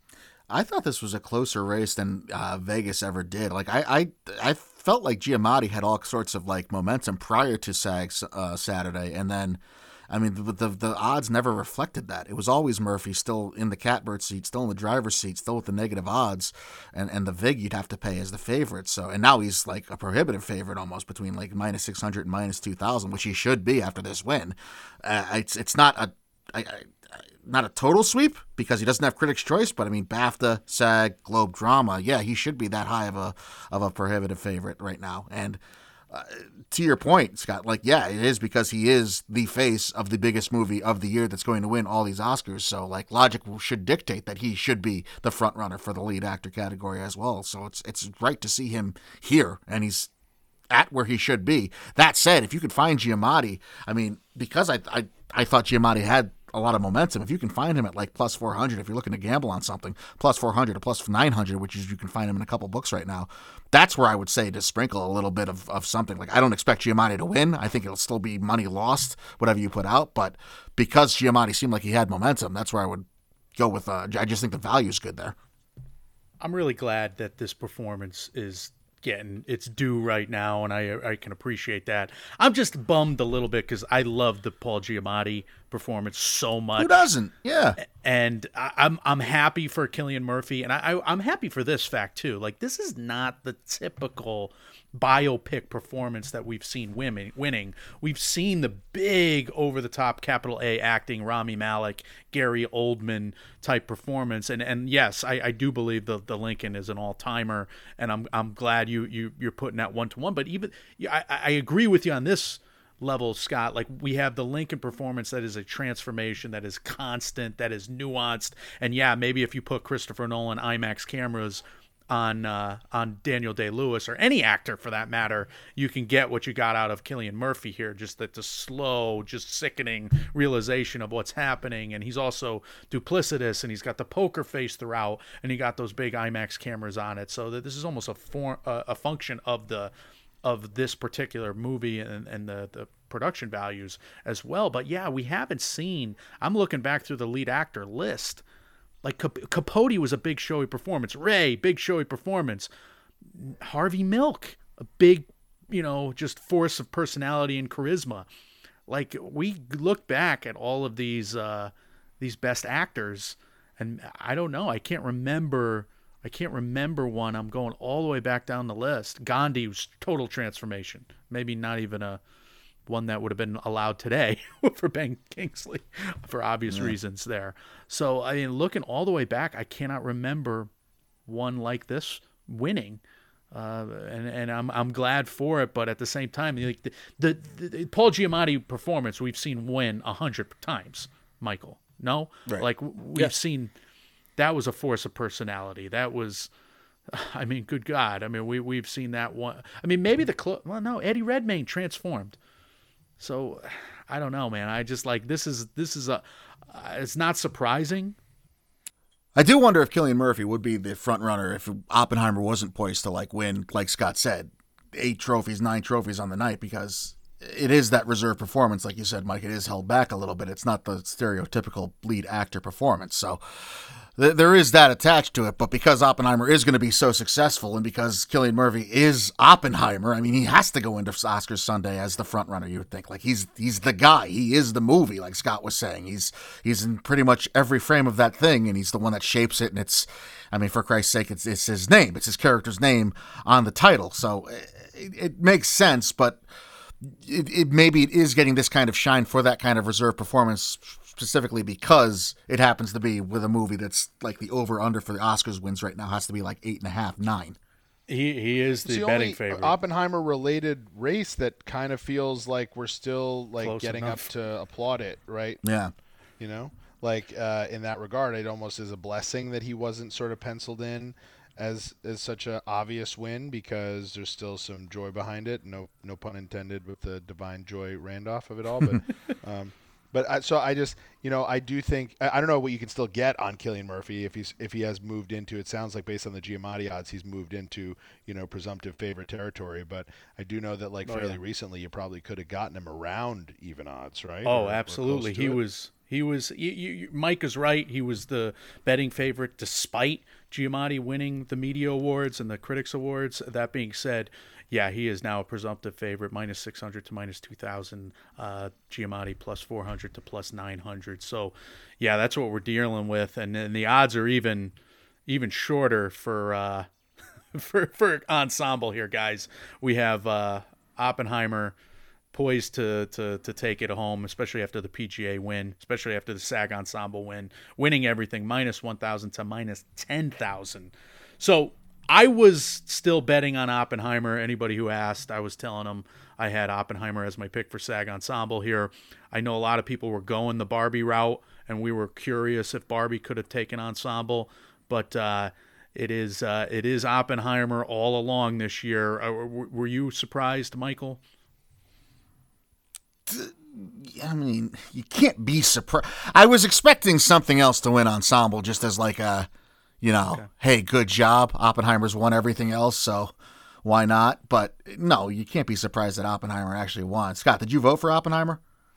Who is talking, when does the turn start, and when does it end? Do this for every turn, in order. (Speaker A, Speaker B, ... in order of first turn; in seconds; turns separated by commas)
Speaker A: 0.5-26.9, Speaker A: 27.4-35.6, Speaker A: 36.1-50.1, Speaker A: 50.7-75.3, Speaker B: 76.4-87.1, Speaker A: 86.8-87.8, Speaker B: 87.8-139.9, Speaker B: 140.4-148.4, Speaker B: 149.0-152.7, Speaker B: 153.3-158.3, Speaker B: 158.9-172.2, Speaker B: 172.9-180.7, Speaker A: 176.7-177.0, Speaker B: 181.3-183.0, Speaker B: 183.5-193.7, Speaker A: 192.5-193.3, Speaker B: 194.4-196.5, Speaker B: 197.1-202.4, Speaker B: 203.2-208.2, Speaker A: 209.4-246.4, Speaker A: 247.0-257.6, Speaker B: 258.1-259.8, Speaker C: 258.8-265.6, Speaker B: 263.6-264.3, Speaker A: 265.6-265.9, Speaker C: 266.4-295.6, Speaker B: 291.1-291.4, Speaker B: 294.4-314.7, Speaker B: 315.3-316.9, Speaker B: 317.5-321.7, Speaker B: 322.3-351.2, Speaker A: 353.3-359.5, Speaker A: 360.0-363.3, Speaker A: 363.8-368.6